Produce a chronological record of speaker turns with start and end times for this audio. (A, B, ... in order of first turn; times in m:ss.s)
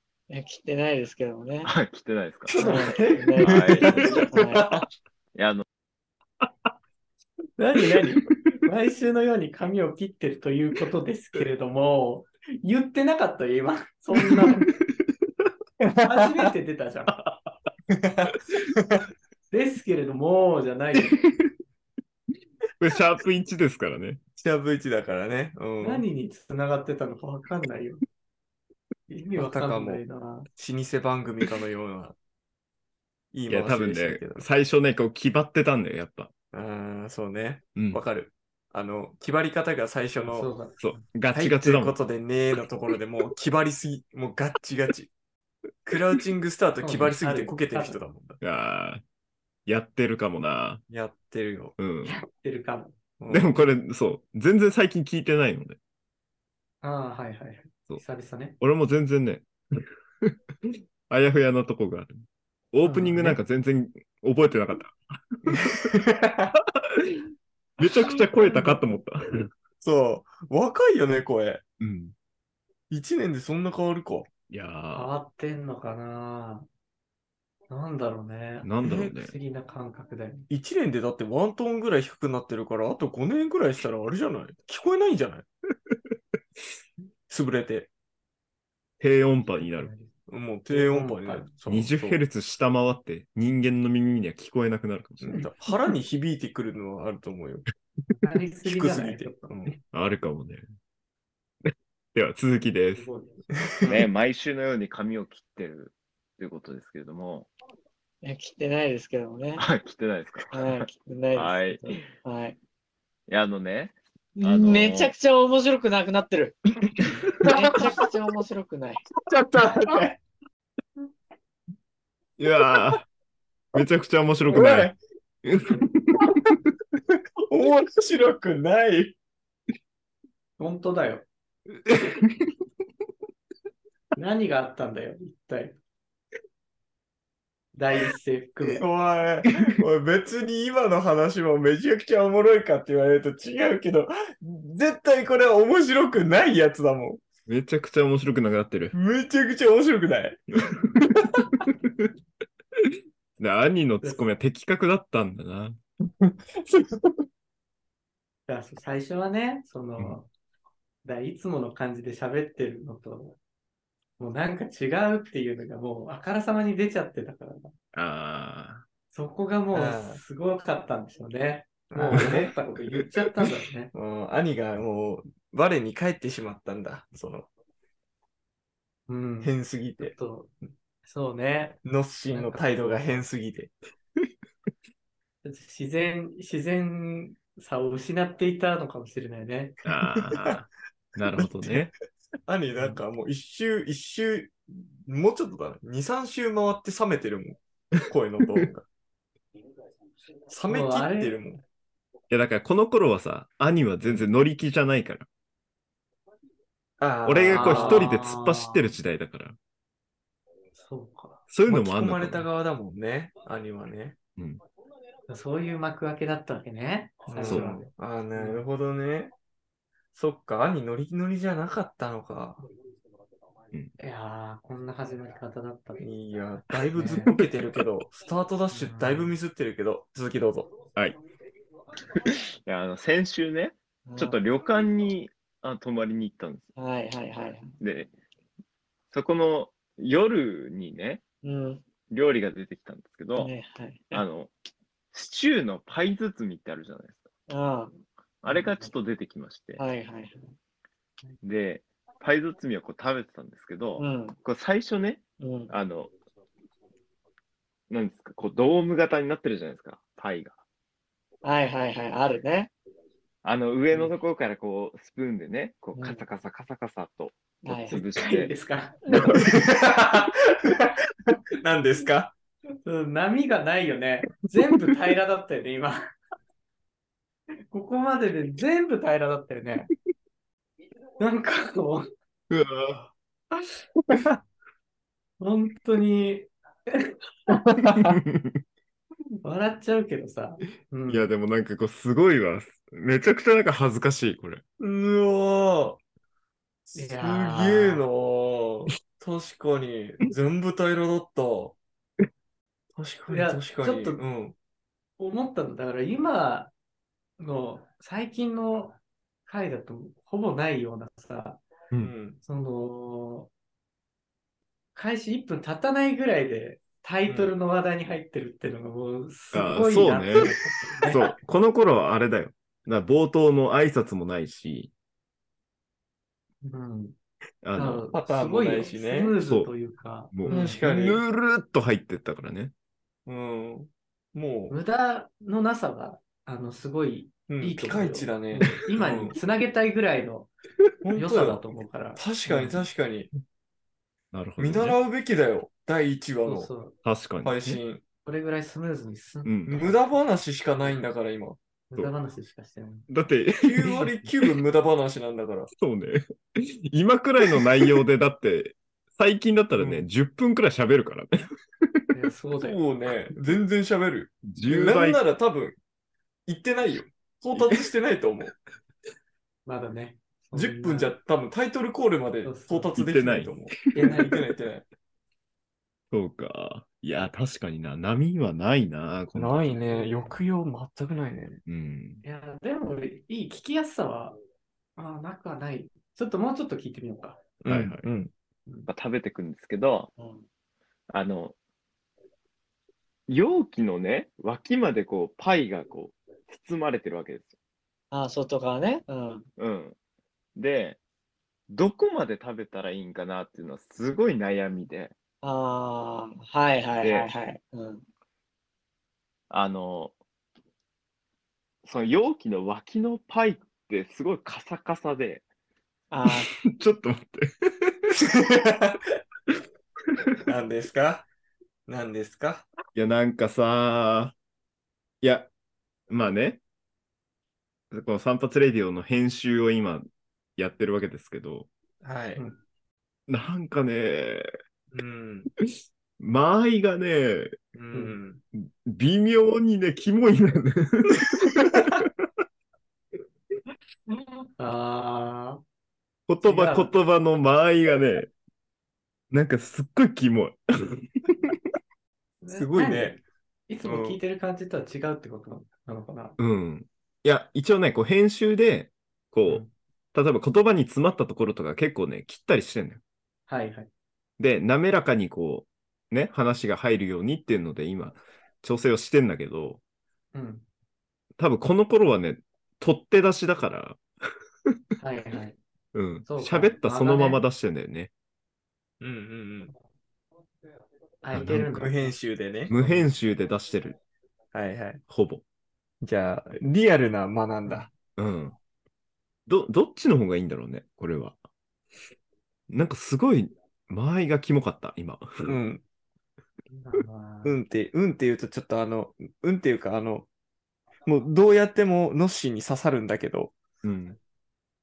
0:00.3-0:01.7 A
0:01.6-0:02.5 B
0:02.5-0:04.9 C
0:02.5-0:04.7 A
0:02.5-0:04.3 D
0:03.4-0:03.9 B
0:05.4-0:05.6 B
0:07.6-0:14.7 D
0:15.8-0:16.5 C
0:16.0-0:17.2 D
0:17.9-0:19.0 C
0:19.5-0:21.2 D
0:22.8-0:24.2 E
0:24.4-0:26.0 C
0:25.8-0:28.0 D
0:29.1-0:30.5 D
0:29.4-0:30.0 C
0:30.6-0:32.2 C
0:33.3-0:34.4 C
0:33.5-0:36.3 E
0:36.5-0:40.5 C
0:37.8-0:38.0 E
0:40.3-0:41.0 D
0:40.8-0:42.0 E
0:41.3-0:45.1 C
0:45.8-0:48.4 C
0:46.8-0:48.0 D
0:48.4-0:49.0 E
0:49.7-0:50.8 E
0:50.9-0:51.8 C
0:51.8-0:52.2 E
0:52.0-0:53.0 D
0:53.2-0:53.6 C
0:53.3-0:55.8 E
0:56.8-0:58.6 D
0:58.6-0:59.5 E
1:00.3-1:05.9 E
1:02.8-1:03.4 D
1:05.5-1:06.5 C
1:06.8-1:07.2 E
1:07.8-1:09.5 E
1:08.4-1:08.8 D
1:09.8-1:11.6 C
1:11.8-1:12.1 E
1:12.9-1:14.3 C
1:14.5-1:15.1 E
1:14.9-1:16.7 D
1:17.7-1:20.5 D
1:18.6-1:19.3 E
1:18.8-1:19.1 C
1:20.5-1:25.5 C
1:27.3-1:27.9 C
1:29.0-1:29.9 E
1:29.5-1:30.1 D
1:30.3-1:32.2 C
1:30.7-1:31.5 D
1:31.7-1:35.4 E
1:35.2-1:37.6 C
1:38.2-1:39.8 D
1:38.6-1:39.8 C
1:39.9-1:40.6 E
1:41.7-1:43.1 E
1:43.0-1:44.1 D
1:43.8-1:47.5 B
1:48.2-1:49.7 A
1:49.6-1:52.1 B
1:50.5-1:52.6 A
1:53.3-1:55.1 B
1:54.4-1:59.0 A
1:59.2-2:00.2 C
2:02.4-2:03.1 E
2:03.7-2:06.4 E
2:04.5-2:05.0 C
2:07.2-2:09.2 C
2:10.6-2:11.3 D
2:11.9-2:12.5 E
2:14.2-2:15.8 D
2:17.7-2:18.9 D
2:18.6-2:27.2 C
2:27.5-2:29.0 E
2:28.9-2:30.4 C
2:31.0-2:31.4 C
2:31.4-2:32.1 E
2:33.4-2:35.8 E
2:36.2-2:37.2 C
2:38.5-2:40.3 D
2:41.0-2:43.4 D
2:44.2-2:47.7 D
2:47.9-2:48.8 E
2:49.1-2:53.9 D
2:49.7-2:50.2 C
2:51.9-2:52.5 C
2:53.9-2:57.5 C
2:59.1-3:00.5 D
2:59.4-3:00.2 C
3:01.0-3:01.8 D
3:01.8-3:03.7 C
3:02.3-3:03.2 D
3:05.4-3:09.8 D
3:09.8-3:11.9 E
3:11.4-3:11.9 C
3:12.5-3:18.8 C
3:12.8-3:13.0 D
3:20.5-3:21.6 C
3:20.7-3:21.4 D
3:22.3-3:25.3 E
3:27.0-3:28.1 C
3:27.2-3:29.6 E
3:27.5-3:28.9 D
3:30.8-3:31.4 D
3:31.5-3:32.5 E
3:31.7-3:34.2 C
3:35.3-3:38.7 D
3:37.3-3:39.3 C
3:37.4-3:37.8 E
3:40.2-3:42.6 C
3:44.0-3:46.1 D
3:46.0-3:50.7 C
3:46.9-3:47.4 D
3:48.7-3:49.4 D
3:52.7-3:56.7 B
3:54.1-3:54.4 A
3:56.8-3:57.8 A
3:57.8-3:58.1 B
3:59.1-4:01.2 B
4:01.4-4:01.9 A
4:02.1-4:03.5 B
4:03.4-4:04.2 A
4:04.1-4:04.5 B
4:05.1-4:07.2 B
4:07.5-4:08.0 A
4:08.4-4:09.8 B
4:09.8-4:10.5 A
4:11.4-4:16.1 B
4:14.0-4:14.4 A
4:15.4-4:15.7 A
4:17.9-4:20.6 B
4:21.4-4:22.7 A
4:23.4-4:28.5 B
4:26.0-4:26.2 A
4:27.6-4:28.0 A
4:27.9-4:29.4 D
4:29.1-4:29.4 A
4:29.3-4:32.3 C
4:32.8-4:36.0 D
4:37.7-4:39.9 D
4:41.2-4:42.1 D
4:42.5-4:43.1 E
4:45.4-4:48.1 D
4:48.0-4:48.6 E
4:49.4-4:51.3 D
4:51.1-4:54.6 E
4:54.8-4:56.0 C
4:56.9-5:01.8 C
4:56.9-4:58.0 D
5:03.0-5:04.6 C
5:03.3-5:04.2 D
5:05.2-5:06.7 D
5:07.4-5:11.6 D
5:12.0-5:12.4 C
5:12.4-5:13.5 D
5:15.0-5:21.2 D
5:17.3-5:17.5 C
5:19.5-5:20.5 E
5:21.1-5:24.9 E
5:26.6-5:27.2 D
5:27.6-5:28.1 E
5:27.8-5:30.8 D
5:28.1-5:29.4 C
5:29.4-5:29.7 E
5:30.3-5:32.7 E
5:30.5-5:31.2 C
5:33.3-5:34.8 C
5:34.7-5:40.5 D
5:37.5-5:39.4 C
5:41.0-5:41.6 C
5:41.1-5:42.9 D
5:42.2-5:43.3 C
5:44.3-5:45.0 E
5:44.6-5:46.7 C
5:46.4-5:47.0 D
5:47.0-5:47.8 E
5:47.4-5:48.0 C
5:48.2-5:50.0 D
5:49.4-5:49.9 E
5:49.7-5:51.6 C
5:51.9-5:53.1 D
5:53.1-5:54.1 E
5:53.6-5:55.7 C
5:55.7-6:02.0 E
5:59.8-6:00.0 C
6:02.1-6:02.8 D
6:02.6-6:05.8 C
6:04.4-6:05.2 E
6:06.5-6:08.5 C
6:09.7-6:11.1 D
6:10.5-6:14.8 C
6:12.4-6:12.9 D
6:13.0-6:14.1 E
6:13.9-6:14.5 D
6:16.1-6:19.8 E
6:19.3-6:21.6 C
6:19.9-6:20.3 D
6:21.7-6:22.2 E
6:22.2-6:24.4 D
6:25.0-6:27.4 D
6:27.6-6:28.3 C
6:27.7-6:28.1 E
6:28.9-6:30.1 B
6:30.2-6:30.4 A
6:31.1-6:31.6 B
6:33.3-6:37.5 B
6:38.1-6:39.5 A
6:39.6-6:40.0 B
6:40.6-6:41.0 B
6:41.7-6:45.1 B
6:45.4-6:48.0 A
6:47.0-6:47.3 B
6:49.5-6:50.2 B
6:51.8-6:55.4 B
6:56.1-6:56.5 A
6:56.3-6:58.2 E
6:58.2-6:59.0 C
7:00.5-7:01.3 C
7:01.9-7:02.7 C
7:02.9-7:04.4 E
7:05.2-7:05.5 E
7:06.1-7:06.6 E
7:07.9-7:11.7 E
7:12.0-7:12.4 C
7:13.3-7:14.5 E
7:14.9-7:15.5 C
7:16.2-7:17.6 E
7:17.8-7:18.4 C
7:17.9-7:18.2 D
7:18.6-7:22.0 E
7:24.6-7:25.6 D
7:26.3-7:28.3 E
7:26.4-7:26.9 D
7:29.3-7:31.5 E
7:32.4-7:36.4 D
7:32.5-7:33.2 C
7:33.8-7:34.2 C
7:36.4-7:43.0 E
7:43.5-7:43.9 D
7:44.4-7:49.8 E
7:50.3-7:50.6 D
7:51.4-7:54.0 E
7:55.0-7:55.6 D
7:55.9-7:58.1 E
7:56.2-7:57.4 D
7:59.0-7:59.7 C
8:01.2-8:03.1 D
8:01.3-8:01.7 E
8:01.3-8:02.7 C
8:02.7-8:04.0 E
8:04.5-8:05.0 C
8:05.1-8:05.4 E
8:06.0-8:07.9 C
8:08.2-8:08.6 E
8:09.5-8:11.4 E
8:12.7-8:15.5 E
8:15.5-8:15.8 C
8:16.7-8:17.6 D
8:17.4-8:20.3 C
8:21.1-8:23.5 C
8:23.8-8:24.2 E